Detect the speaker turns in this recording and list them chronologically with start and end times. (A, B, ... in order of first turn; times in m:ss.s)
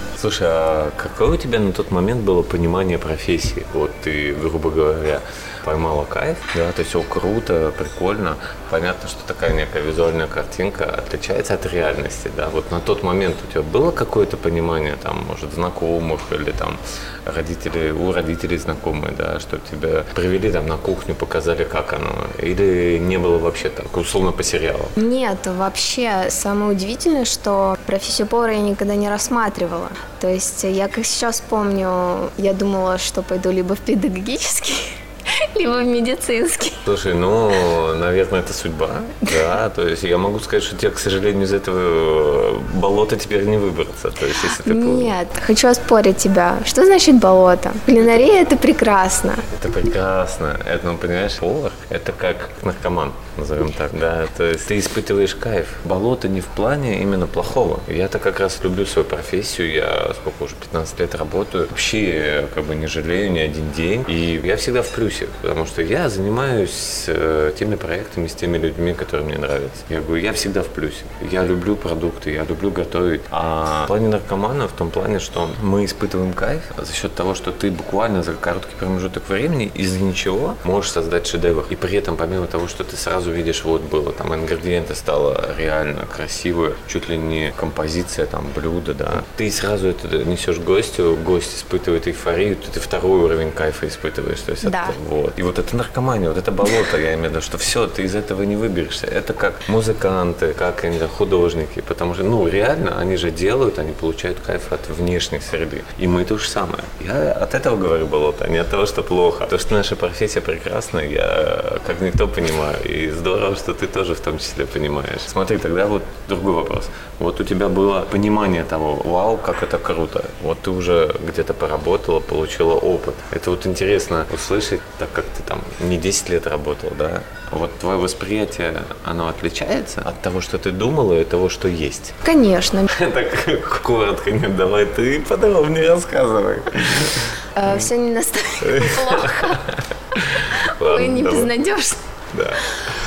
0:00.2-0:24.9 A
0:25.0-0:36.8 B
0:36.8-0:45.2 A
0:44.4-0:49.5 B
0:49.5-2:12.2 A
1:34.6-1:35.0 B
2:12.2-2:12.9 B
2:12.9-2:17.8 A
2:17.6-2:19.6 B
2:18.6-2:21.5 A
2:20.8-2:22.0 B
2:22.3-2:22.7 A